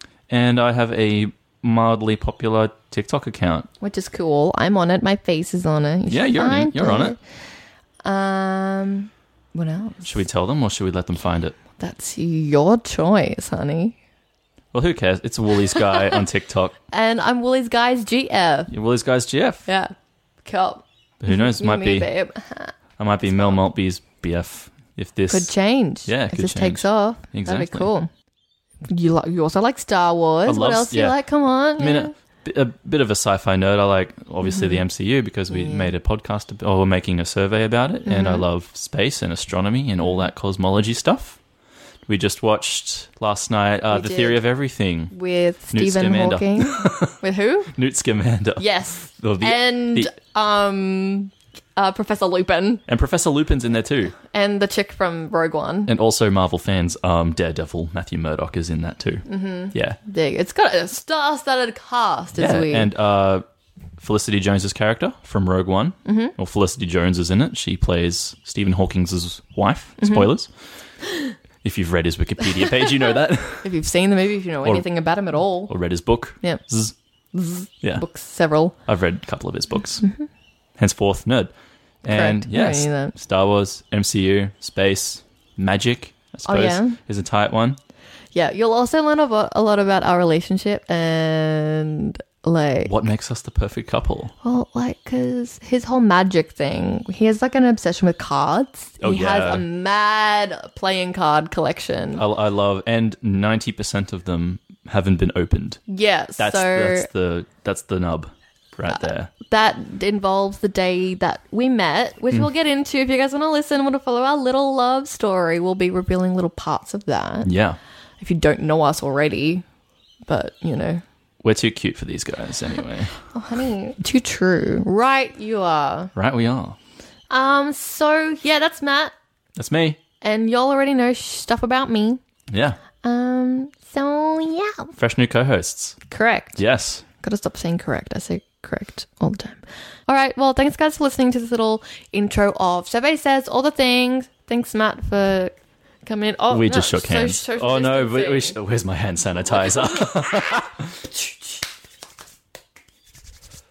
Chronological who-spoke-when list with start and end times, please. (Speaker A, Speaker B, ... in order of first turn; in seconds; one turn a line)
Speaker A: 0.3-3.7
Speaker B: 3.8-7.2
Speaker A: 6.1-7.2
Speaker B: 8.0-10.2
Speaker A: 10.1-11.6
Speaker B: 11.8-14.0
Speaker A: 14.7-16.8
Speaker B: 15.7-16.2
Speaker B: 16.9-18.7
Speaker A: 18.7-19.7
Speaker B: 19.7-19.9
Speaker B: 20.4-23.6
Speaker A: 21.2-22.1
Speaker A: 23.0-25.5
Speaker B: 25.3-28.1
Speaker A: 26.1-27.9
Speaker B: 28.9-32.1
Speaker A: 30.5-31.2
Speaker A: 31.8-41.4
Speaker B: 34.4-34.8
Speaker B: 35.5-35.9
Speaker B: 38.0-38.5
Speaker A: 42.1-45.1
Speaker B: 43.9-44.4
Speaker B: 45.1-47.8
Speaker A: 45.7-47.2
Speaker A: 47.8-50.1
Speaker B: 48.6-52.8
Speaker A: 52.9-54.2
Speaker B: 54.2-55.9
Speaker A: 55.9-60.0
Speaker B: 59.3-62.9
Speaker A: 62.4-63.4
Speaker A: 64.0-70.5
Speaker B: 66.0-66.3
Speaker B: 70.0-70.3
Speaker A: 71.6-73.7
Speaker B: 73.6-75.8
Speaker A: 75.7-77.0
Speaker B: 77.3-78.8
Speaker A: 78.9-80.1
Speaker A: 80.8-81.5
Speaker A: 82.0-87.8
Speaker B: 82.1-83.2
Speaker B: 86.5-87.0
Speaker B: 88.3-92.9
Speaker A: 92.8-94.3
Speaker B: 94.4-102.2
Speaker A: 99.0-99.7
Speaker A: 102.2-105.8
Speaker B: 105.9-107.1
Speaker A: 106.4-109.3
Speaker B: 108.9-117.5
Speaker A: 117.4-117.8
Speaker B: 118.2-119.6
Speaker B: 120.3-121.0
Speaker A: 121.4-123.1
Speaker B: 123.3-126.1
Speaker A: 126.2-126.8
Speaker B: 127.3-129.1
Speaker A: 129.6-130.0
Speaker B: 130.2-132.2
Speaker A: 132.5-132.8
Speaker B: 133.0-134.9
Speaker A: 135.0-136.0
Speaker B: 136.1-136.6
Speaker A: 136.6-137.0
Speaker B: 137.2-145.5
Speaker B: 146.1-148.6
Speaker A: 146.5-151.1